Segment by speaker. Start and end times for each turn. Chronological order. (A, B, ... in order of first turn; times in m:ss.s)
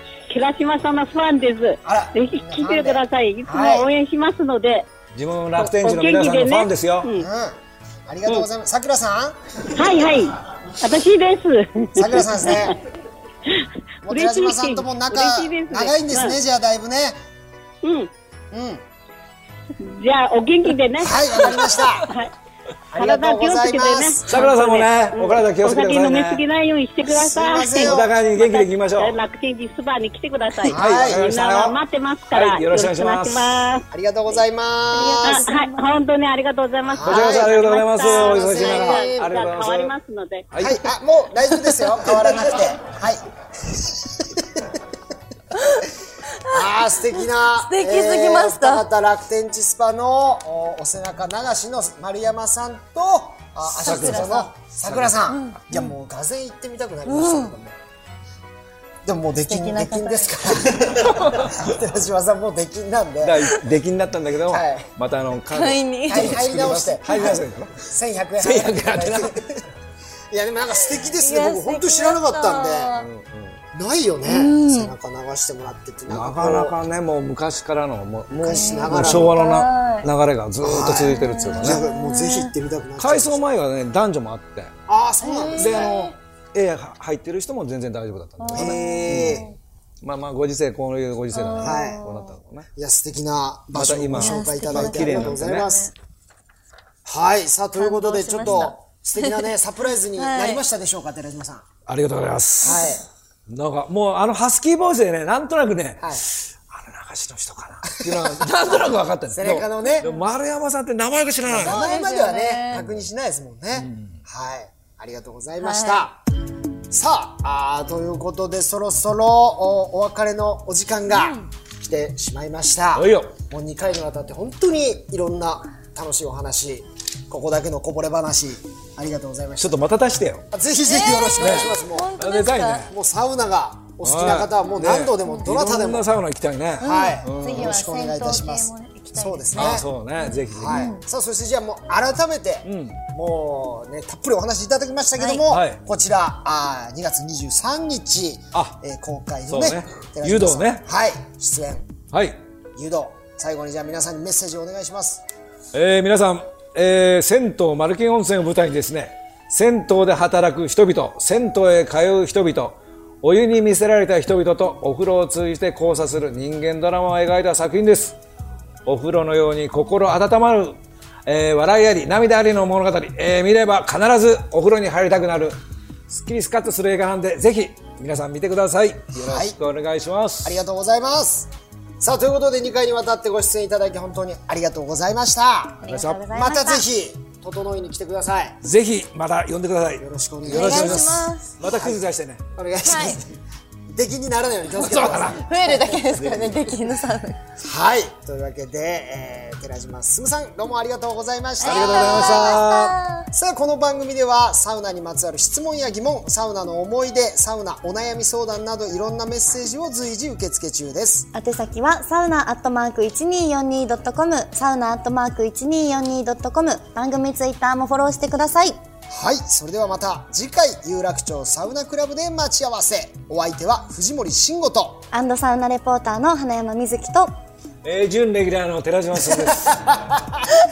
0:00.3-0:04.9 A
0:01.8-0:03.9 B
0:05.1-0:07.1 C
0:05.6-0:07.3 A
0:07.1-0:10.2 B
0:09.8-0:12.5 A
0:11.9-0:12.8 B
0:14.0-0:17.2 B
0:14.1-0:16.4 A
0:17.8-0:18.1 A
0:18.5-0:18.8 B
0:19.8-0:22.3 A
0:21.0-0:22.1 B
0:22.9-0:24.4 B
0:23.0-0:33.8 A
0:24.3-0:26.4 C
0:27.1-0:28.1 B
0:27.8-0:29.2 C
0:30.6-0:31.3 B
0:30.6-0:31.8 C
0:32.3-0:33.6 C
0:33.9-0:35.5 B
0:34.9-0:35.9 D
0:35.2-0:40.5 A
0:36.9-0:39.5 B
0:37.0-0:39.9 C
0:40.5-0:40.9 C
0:40.6-0:44.8 B
0:45.6-0:45.9 D
0:46.4-0:48.9 D
0:46.4-0:57.8 B
0:53.8-0:55.3 C
0:53.8-0:54.5 D
0:55.3-0:55.9 D
0:57.1-0:57.6 D
0:59.0-1:03.6 B
0:59.5-1:00.9 D
1:01.0-1:01.6 C
1:03.2-1:07.8 C
1:04.5-1:04.9 B
1:05.5-1:06.5 D
1:06.1-1:09.6 B
1:07.0-1:07.4 D
1:08.4-1:09.6 C
1:10.3-1:12.9 B
1:11.1-1:13.1 D
1:13.0-1:13.6 C
1:13.7-1:16.8 B
1:14.3-1:14.9 D
1:16.1-1:21.8 C
1:18.3-1:19.4 B
1:18.5-1:20.1 D
1:20.6-1:23.4 B
1:21.1-1:22.5 D
1:23.0-1:24.7 C
1:24.9-1:25.9 B
1:25.2-1:26.2 D
1:25.6-1:29.4 C
1:28.4-1:29.6 D
1:28.5-1:29.5 B
1:30.0-1:32.7 C
1:31.3-1:32.4 D
1:31.6-1:32.0 B
1:32.8-1:35.9 B
1:33.7-1:35.7 C
1:34.2-1:35.9 D
1:37.0-1:41.7 B
1:37.8-1:39.5 D
1:40.2-1:40.6 D
1:41.9-1:42.9 C
1:42.6-1:43.0 B
1:42.7-1:42.9 D
1:43.5-1:51.8 C
1:46.0-1:46.2 B
1:48.0-1:50.1 B
1:51.5-1:56.2 B
1:51.6-1:52.8 D
1:52.7-1:53.1 C
1:53.8-1:54.2 C
1:55.6-1:56.1 D
1:56.9-2:09.8 B
2:01.1-2:01.5 D
2:02.9-2:03.4 C
2:09.6-2:10.5 C
2:10.5-2:12.1 B
2:10.8-2:12.9 D
2:11.4-2:12.9 C
2:12.9-2:16.1 B
2:14.0-2:17.8 C
2:16.8-2:19.9 B
2:16.8-2:21.0 D
2:19.5-2:20.9 C
2:20.5-2:31.9 B
2:22.6-2:23.0 C
2:25.3-2:25.8 C
2:28.5-2:28.8 C
2:29.5-2:30.8 C
2:32.1-2:32.4 C
2:32.8-2:35.2 B
2:35.7-2:48.2 C
2:48.9-2:55.6 C
2:56.1-3:00.6 C
2:59.2-2:59.6 B
3:00.4-3:08.6 B
3:05.8-3:06.8 D
3:05.9-3:06.2 C
3:08.6-3:12.4 C
3:10.0-3:12.0 B
3:10.5-3:11.5 D
3:12.6-3:16.6 B
3:12.8-3:13.2 D
3:14.8-3:15.4 C
3:15.3-3:17.4 D
3:16.2-3:16.5 C
3:17.6-3:31.3 B
3:21.6-3:23.3 D
3:21.6-3:23.0 C
3:31.3-3:38.8 D
3:39.1-3:45.1 B
3:45.1-3:47.3 D
3:47.8-3:49.8 C
3:49.3-3:50.4 B